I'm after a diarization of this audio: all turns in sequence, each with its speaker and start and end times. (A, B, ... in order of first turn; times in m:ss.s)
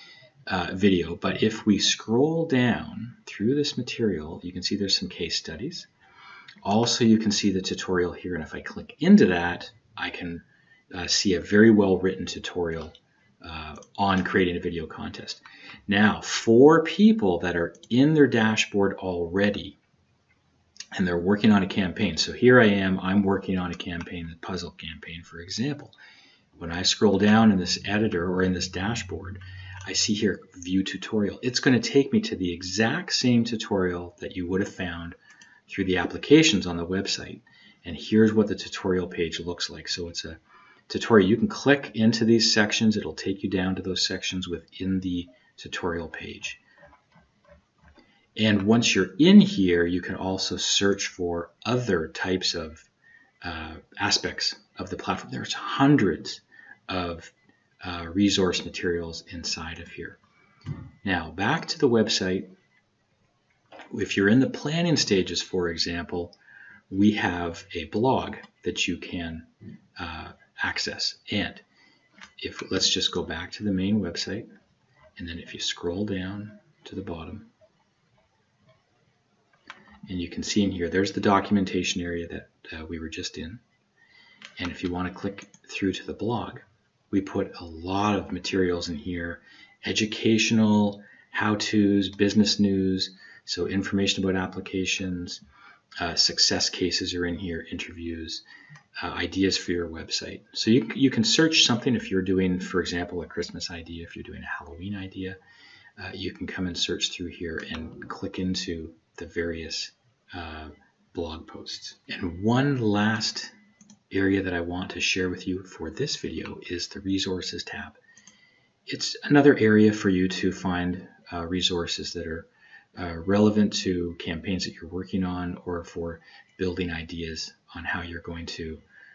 0:00.5-0:05.9 A
0:06.6-0:19.8 A
0:20.9-0:26.0 A
0:26.6-0:35.2 A
0:35.7-0:46.6 A
0:48.4-0:52.9 A
0:53.4-1:00.2 A
1:01.0-1:02.5 A
1:03.9-1:06.4 A
1:06.9-1:11.6 A
1:12.4-1:14.5 A
1:15.2-1:17.5 A
1:20.1-1:23.6 A
1:24.6-1:35.4 A
1:36.0-1:38.4 A
1:39.0-1:45.4 A
1:46.0-1:53.5 A
1:54.1-1:58.0 A
1:58.9-2:08.8 A